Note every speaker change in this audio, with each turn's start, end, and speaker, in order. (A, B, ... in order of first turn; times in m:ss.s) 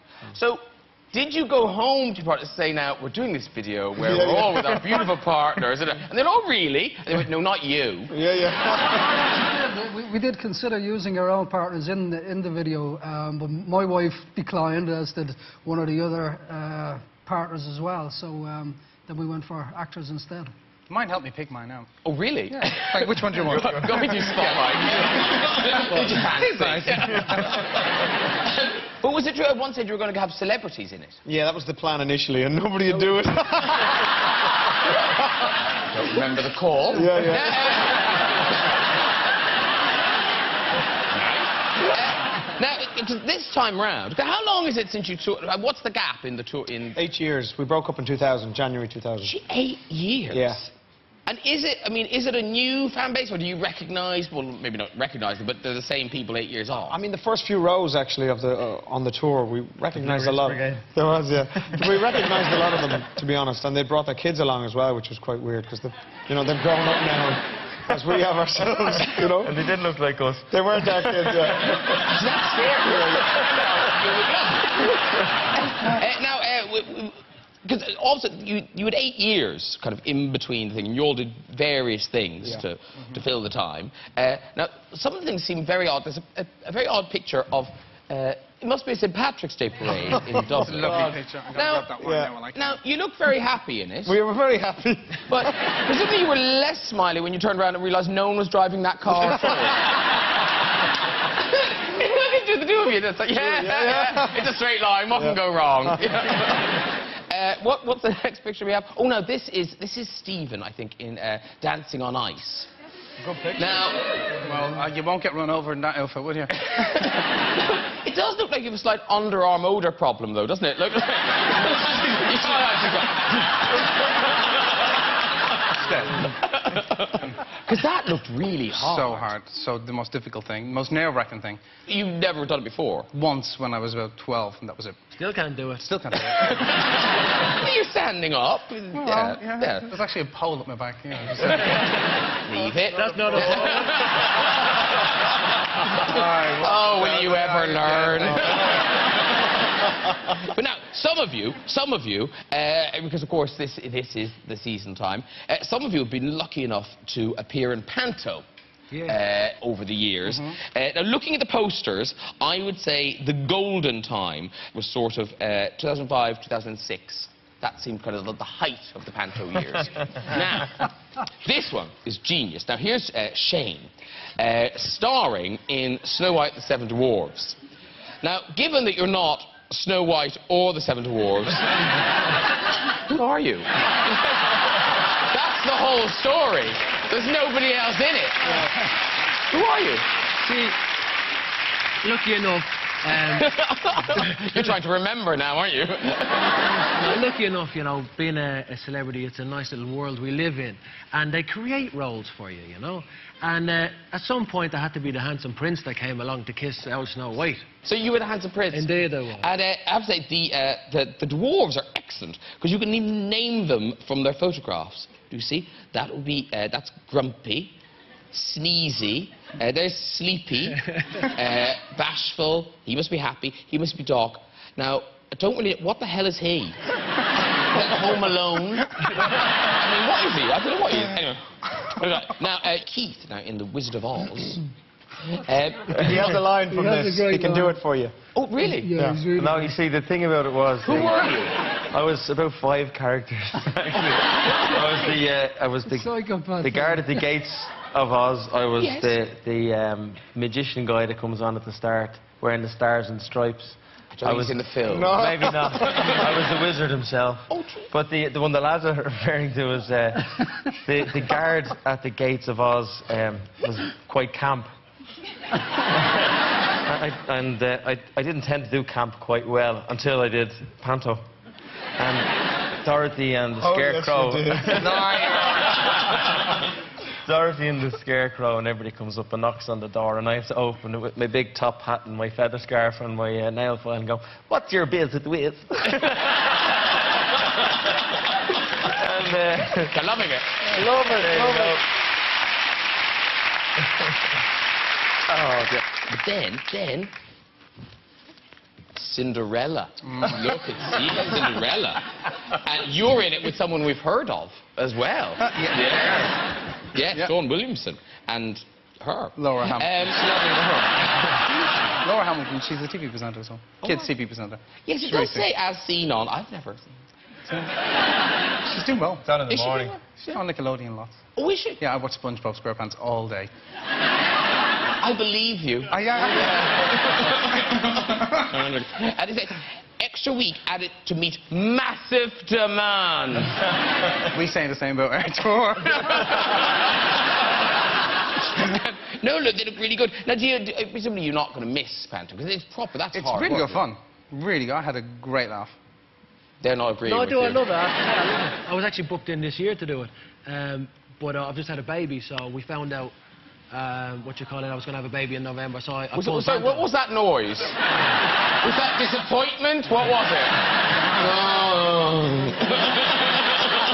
0:00.3-0:08.1 A
0:04.0-0:05.0 B
0:08.1-0:09.1 B
0:08.9-0:20.5 C
0:20.9-0:21.9 D
0:22.0-0:31.2 A
0:22.5-0:24.7 D
0:26.3-0:27.6 D
0:31.2-0:34.2 B
0:35.8-0:38.7 A
0:36.9-0:37.7 B
0:41.1-0:47.0 A
0:47.0-0:49.3 B
0:49.2-0:50.7 A
0:50.3-0:50.6 B
0:51.2-0:57.0 A
0:56.9-1:09.5 B
0:59.9-1:00.9 E
1:09.0-1:12.0 E
1:10.5-1:11.8 B
1:11.9-1:32.0 A
1:30.6-1:32.8 D
1:30.7-1:31.2 B
1:32.0-1:32.3 B
1:32.5-1:34.2 A
1:34.0-1:35.3 B
1:35.3-1:40.1 A
1:41.2-1:52.7 A
1:43.4-1:44.5 B
1:53.2-1:53.8 B
1:53.6-1:54.1 A
1:54.4-1:56.5 D
1:56.6-2:04.5 A
2:05.8-2:06.1 D
2:06.1-2:09.3 A
2:08.7-2:11.6 D
2:11.8-2:13.1 A
2:13.1-2:15.0 D
2:15.1-2:16.0 F
2:15.8-2:16.8 D
2:16.4-2:19.9 A
2:18.9-2:22.1 D
2:21.7-2:25.1 A
2:22.9-2:24.0 F
2:25.7-2:29.3 A
2:26.3-2:28.5 D
2:30.1-2:38.4 A
2:38.9-2:39.2 F
2:39.0-2:57.6 A
2:58.2-3:01.9 A
3:02.9-3:08.6 A
3:09.5-3:10.0 A
3:10.4-3:10.8 F
3:12.0-3:13.5 F
3:13.2-3:17.0 A
3:16.6-3:27.6 F
3:27.8-3:37.8 A
3:28.7-3:29.5 F
3:38.3-3:46.8 A
3:47.6-3:54.6 A
3:55.2-3:56.2 A
3:56.0-3:58.1 B
3:56.6-3:57.8 C
3:58.3-3:58.9 A
3:58.6-3:59.7 C
3:58.9-3:59.2 B
3:59.3-4:01.4 E
4:00.8-4:01.6 A
4:01.9-4:24.7 E
4:05.9-4:07.2 C
4:08.8-4:09.2 A
4:14.1-4:15.3 A
4:14.9-4:15.7 B
4:15.8-4:16.2 A
4:17.5-4:17.9 A
4:25.8-4:31.2 E
4:32.0-4:36.5 E
4:33.6-4:35.0 B
4:34.8-4:35.8 D
4:37.2-4:46.7 E
4:48.8-4:50.0 E
4:49.9-4:50.7 A
4:50.6-4:51.8 E
4:55.3-4:55.8 E
4:55.9-4:57.1 A
4:58.9-5:10.4 A
5:05.4-5:06.2 D
5:09.4-5:15.5 D
5:13.8-5:14.1 A
5:14.8-5:17.0 A
5:17.5-5:17.7 D
5:18.6-5:19.3 D
5:19.3-5:19.9 B
5:19.4-5:20.4 A
5:20.1-5:21.2 D
5:21.4-5:21.8 A
5:21.8-5:23.5 D
5:25.0-5:33.7 A
5:25.9-5:26.9 D
5:34.3-5:36.4 D
5:36.3-5:36.6 A
5:38.4-5:43.8 A
5:43.1-5:45.8 D
5:46.6-5:47.6 A
5:47.0-5:53.1 F
5:53.7-5:56.9 F
5:56.1-5:57.8 A
5:58.4-6:03.7 A